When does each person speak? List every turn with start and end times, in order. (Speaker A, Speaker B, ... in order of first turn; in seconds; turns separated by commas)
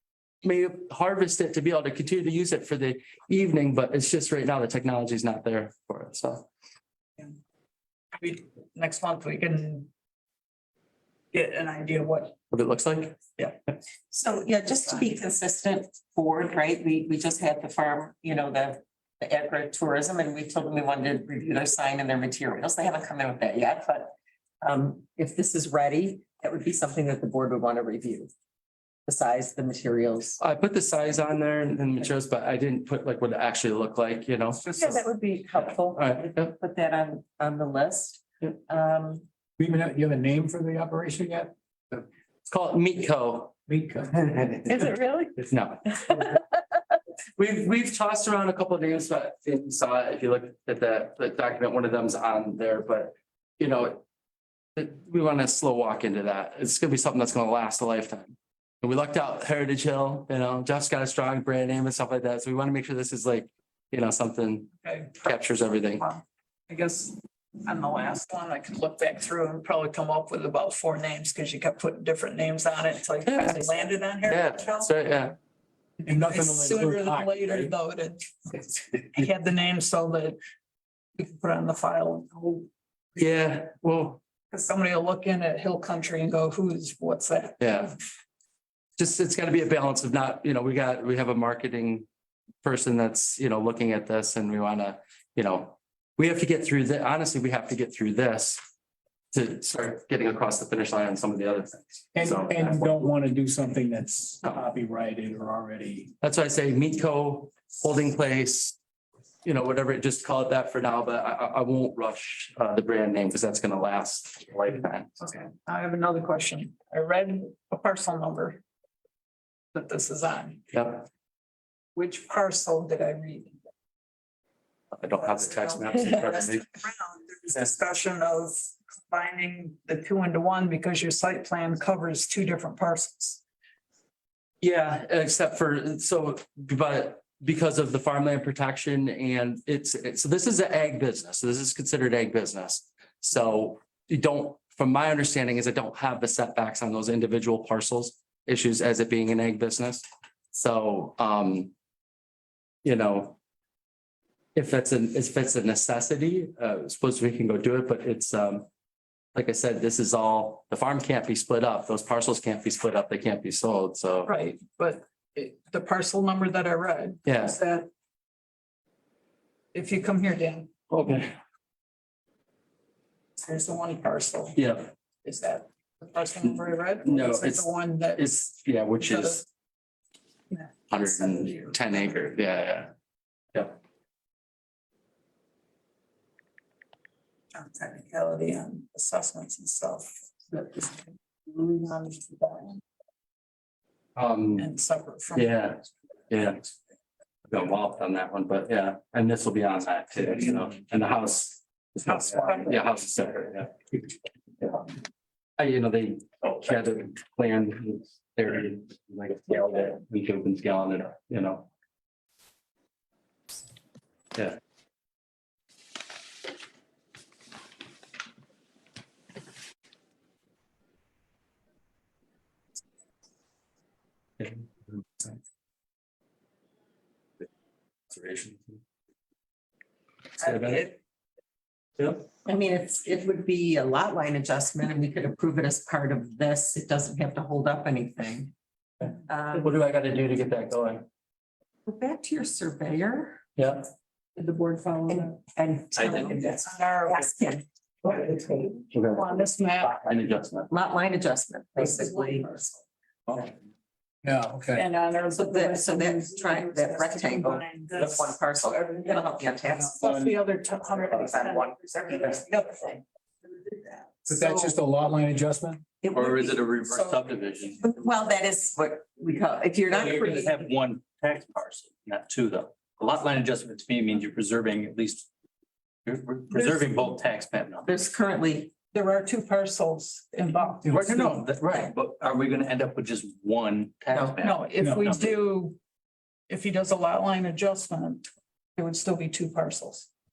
Speaker A: 0.4-6.5, Speaker B: 8.2-9.9, Speaker B: 11.3-12.3, Speaker A: 12.5-13.2, Speaker C: 14.1-28.3, Speaker C: 29.1-30.4, Speaker A: 30.4-35.0, Speaker C: 34.6-39.2, Speaker A: 35.6-36.5, Speaker D: 39.6-42.0, Speaker A: 42.5-43.5, Speaker D: 43.7-44.6, Speaker C: 44.6-45.3, Speaker A: 45.4-46.3, Speaker C: 45.9-46.4, Speaker A: 47.4-54.0, Speaker A: 54.8-66.0, Speaker B: 64.8-65.4, Speaker B: 66.0-74.9, Speaker A: 73.2-73.7, Speaker A: 74.2-75.3, Speaker B: 76.0-80.4, Speaker D: 76.0-77.7, Speaker B: 81.2-82.7, Speaker A: 83.2-84.2, Speaker B: 84.5-87.8, Speaker A: 87.6-87.9, Speaker A: 89.0-92.0, Speaker A: 92.6-98.6, Speaker A: 99.3-102.9, Speaker D: 102.1-106.1, Speaker A: 106.2-108.8, Speaker A: 109.4-115.2, Speaker B: 115.2-118.6, Speaker B: 119.7-120.6, Speaker A: 120.7-121.0, Speaker B: 121.9-123.6, Speaker A: 124.9-126.7, Speaker B: 125.2-133.4, Speaker A: 134.6-151.7, Speaker A: 152.8-153.4, Speaker A: 154.5-158.7, Speaker A: 159.3-164.3, Speaker B: 164.2-167.9, Speaker A: 167.2-167.6, Speaker B: 169.7-170.7, Speaker A: 170.9-171.3, Speaker B: 173.4-174.6, Speaker A: 174.5-174.9, Speaker B: 175.2-178.3, Speaker A: 176.4-179.4, Speaker B: 179.0-179.4, Speaker B: 180.5-182.1, Speaker A: 180.9-182.9, Speaker B: 187.5-192.8, Speaker A: 194.2-194.7, Speaker B: 194.6-195.5, Speaker A: 195.3-196.7, Speaker A: 197.5-204.0, Speaker B: 202.1-202.8, Speaker A: 205.6-211.7, Speaker A: 224.4-225.3, Speaker A: 228.1-228.8, Speaker A: 230.4-230.9, Speaker B: 230.4-231.0, Speaker A: 232.0-232.3, Speaker C: 232.4-238.5, Speaker C: 239.3-239.7, Speaker A: 239.5-241.0, Speaker C: 241.8-243.4, Speaker A: 243.6-243.8, Speaker B: 244.4-245.3, Speaker C: 245.1-248.8, Speaker B: 246.1-247.3, Speaker A: 248.9-249.3, Speaker B: 249.1-250.1, Speaker A: 250.0-250.7, Speaker C: 250.7-252.7, Speaker D: 254.2-254.8, Speaker B: 254.8-264.8, Speaker C: 255.3-260.0, Speaker D: 260.0-260.3, Speaker C: 261.2-262.4, Speaker D: 264.3-265.8, Speaker C: 266.0-266.5, Speaker E: 266.1-267.8, Speaker B: 266.9-267.2, Speaker C: 267.8-270.6, Speaker E: 269.9-275.3, Speaker E: 276.0-277.9, Speaker B: 276.5-277.0, Speaker C: 277.8-278.7, Speaker B: 278.9-281.1, Speaker E: 280.9-285.4, Speaker B: 284.4-285.8, Speaker D: 284.8-285.1, Speaker B: 286.5-288.2, Speaker B: 288.8-290.1